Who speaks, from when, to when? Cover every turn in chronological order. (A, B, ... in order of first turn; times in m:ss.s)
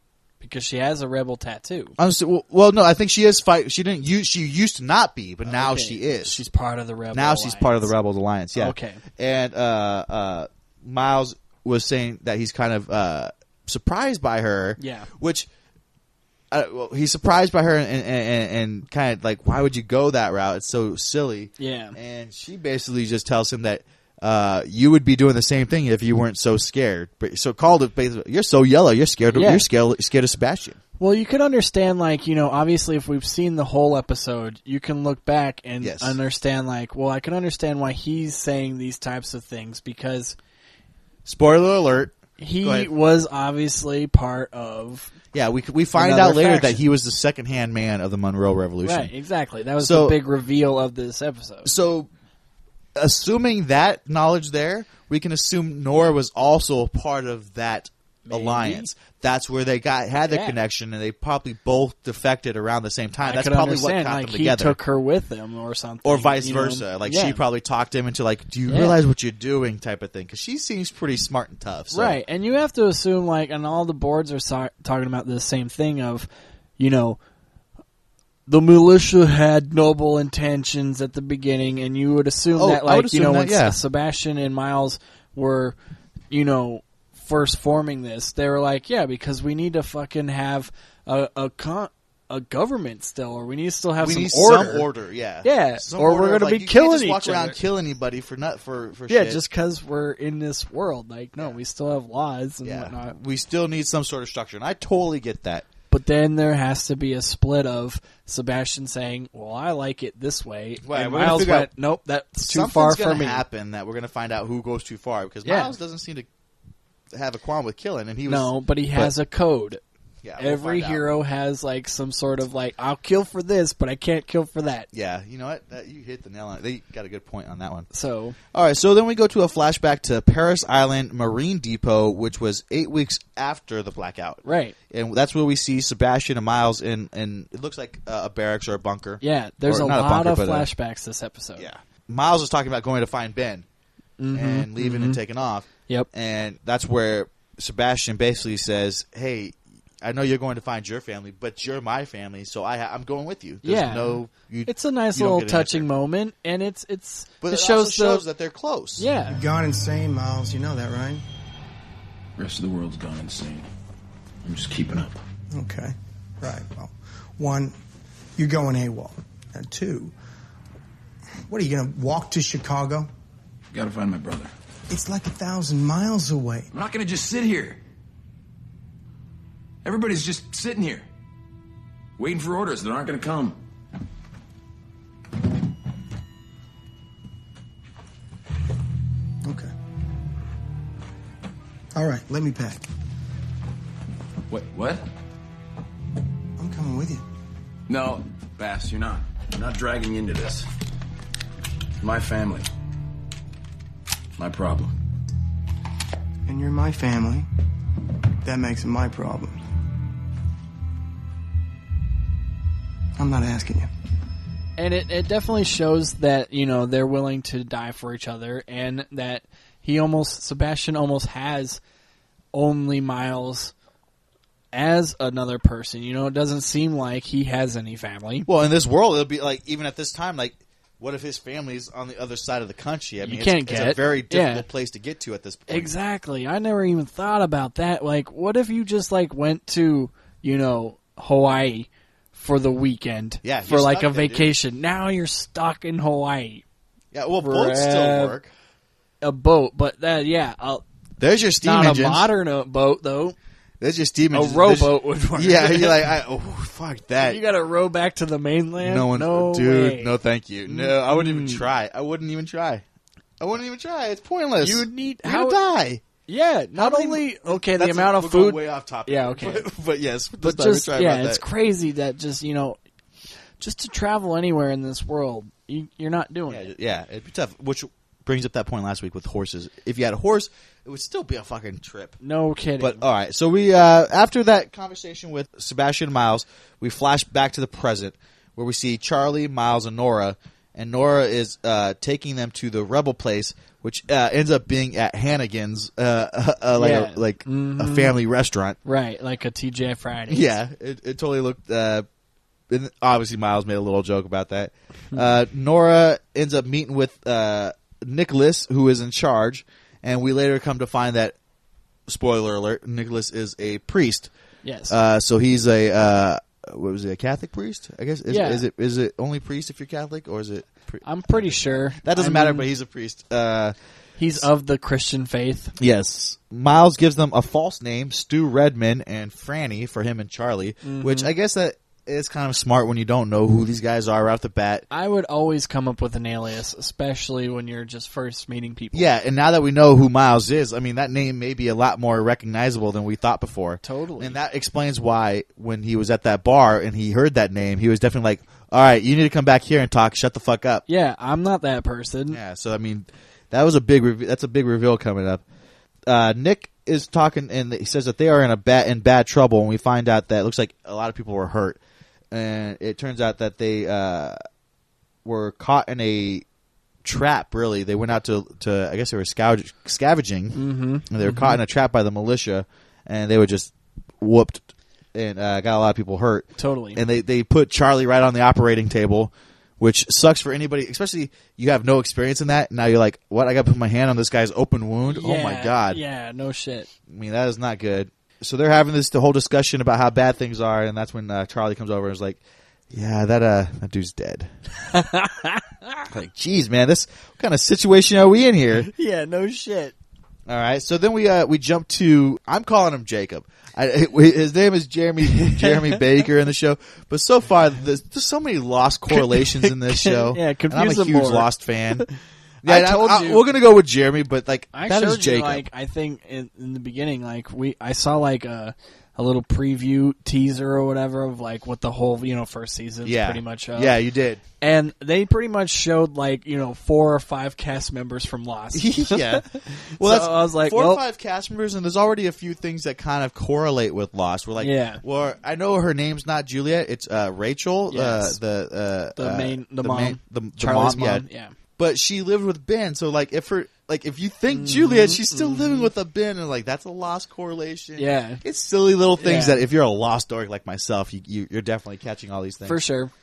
0:00.4-0:01.9 A
0:02.0-0:06.4 B
0:05.5-0:07.9 A
0:07.1-0:15.5 B
0:08.6-0:09.0 A
0:14.8-0:15.1 A
0:16.5-0:30.8 B
0:21.6-0:22.0 A
0:29.3-0:29.6 A
0:31.0-0:40.4 A
0:35.8-0:36.2 B
0:41.2-0:42.9 B
0:42.4-0:45.1 A
0:45.3-0:49.1 B
0:45.9-0:46.8 A
0:48.8-0:51.7 A
0:49.8-0:50.2 B
0:51.6-0:52.1 B
0:53.0-1:04.8 B
0:58.3-0:58.9 A
1:00.3-1:00.6 A
1:03.2-1:07.4 A
1:06.0-1:12.2 B
1:08.7-1:09.0 A
1:11.9-1:17.2 A
1:18.5-1:25.8 A
1:22.6-1:23.8 B
1:26.3-1:34.9 A
1:34.0-1:39.4 B
1:35.4-1:37.6 A
1:39.1-1:43.1 A
1:42.6-1:45.6 B
1:45.9-1:53.4 A
1:50.8-1:51.7 B
1:52.4-1:56.3 B
1:55.4-1:55.7 A
1:57.1-1:59.1 B
1:58.2-1:59.8 A
2:00.2-2:01.0 B
2:00.4-2:04.9 A
2:04.9-2:07.9 B
2:07.9-2:08.4 A
2:08.5-2:20.7 B
2:14.4-2:14.7 A
2:19.2-2:21.6 A
2:21.6-2:23.6 B
2:24.2-2:25.2 A
2:24.3-2:35.9 B
2:33.6-2:34.1 A
2:34.6-2:38.2 A
2:37.4-2:39.1 B
2:39.0-2:39.4 A
2:39.2-2:41.2 C
2:42.4-2:43.7 D
2:44.4-2:45.2 D
2:45.5-2:47.8 C
2:48.4-2:50.1 C
2:51.5-2:53.1 C
2:53.7-2:54.5 D
2:54.9-2:56.7 C
2:56.7-2:57.8 D
2:59.8-3:01.0 D
3:02.2-3:03.6 D
3:09.4-3:09.7 C
3:11.9-3:12.8 C
3:14.5-3:15.0 D
3:16.6-3:17.2 C
3:17.9-3:20.7 D
3:22.0-3:22.7 D
3:24.4-3:24.9 D
3:26.5-3:27.5 C
3:28.4-3:29.6 C
3:33.2-3:33.9 C
3:34.8-3:41.8 A
3:42.5-3:43.7 A
3:44.7-3:48.5 A
3:48.5-3:55.9 B
3:53.2-3:54.6 A
3:55.7-4:06.6 A
4:03.4-4:04.5 B
4:07.1-4:08.5 B
4:07.4-4:08.4 A
4:09.2-4:10.8 A
4:11.2-4:12.3 B
4:11.6-4:13.4 A
4:13.8-4:17.4 B
4:14.3-4:16.1 A
4:17.2-4:20.1 A
4:18.8-4:22.8 B
4:20.6-4:21.6 A
4:23.4-4:26.0 B
4:24.6-4:25.6 A
4:26.3-4:29.7 A
4:26.8-4:31.4 B
4:30.4-4:32.8 A
4:33.6-4:36.6 A
4:36.5-4:42.2 B
4:42.2-4:43.0 A
4:42.8-4:58.8 B
4:56.8-4:58.2 A
4:58.8-5:00.6 A
5:00.3-5:02.0 B
5:02.7-5:11.3 B
5:12.1-5:14.3 B
5:14.6-5:15.0 A
5:14.9-5:23.7 B
5:18.3-5:18.6 A
5:21.0-5:22.6 A
5:24.2-5:25.7 A
5:25.8-5:34.8 B
5:30.8-5:31.3 A
5:34.9-5:39.1 A
5:38.9-5:50.8 B
5:43.8-5:44.4 A
5:50.9-5:52.4 A
5:52.3-5:55.4 B
5:56.1-6:01.8 B
6:02.3-6:04.4 B
6:05.2-6:06.4 B
6:07.0-6:13.7 B
6:10.5-6:11.6 A
6:14.2-6:26.0 B
6:16.6-6:17.0 A
6:25.1-6:26.9 A
6:27.1-6:32.4 B
6:32.9-6:34.5 B
6:34.9-6:36.1 A
6:36.1-6:38.9 B
6:38.8-6:39.9 A
6:40.5-6:52.0 B
6:45.3-6:46.0 A
6:49.1-6:51.5 A
6:52.6-6:55.6 B
6:52.6-6:53.5 A
6:54.7-7:03.9 A
7:03.0-7:04.4 B
7:04.6-7:11.0 A
7:08.7-7:21.2 B
7:14.6-7:15.0 A
7:17.9-7:18.4 A
7:19.2-7:21.5 A
7:21.8-7:32.8 B
7:24.5-7:25.9 A
7:28.0-7:28.4 A
7:29.2-7:29.6 A
7:32.6-7:33.1 A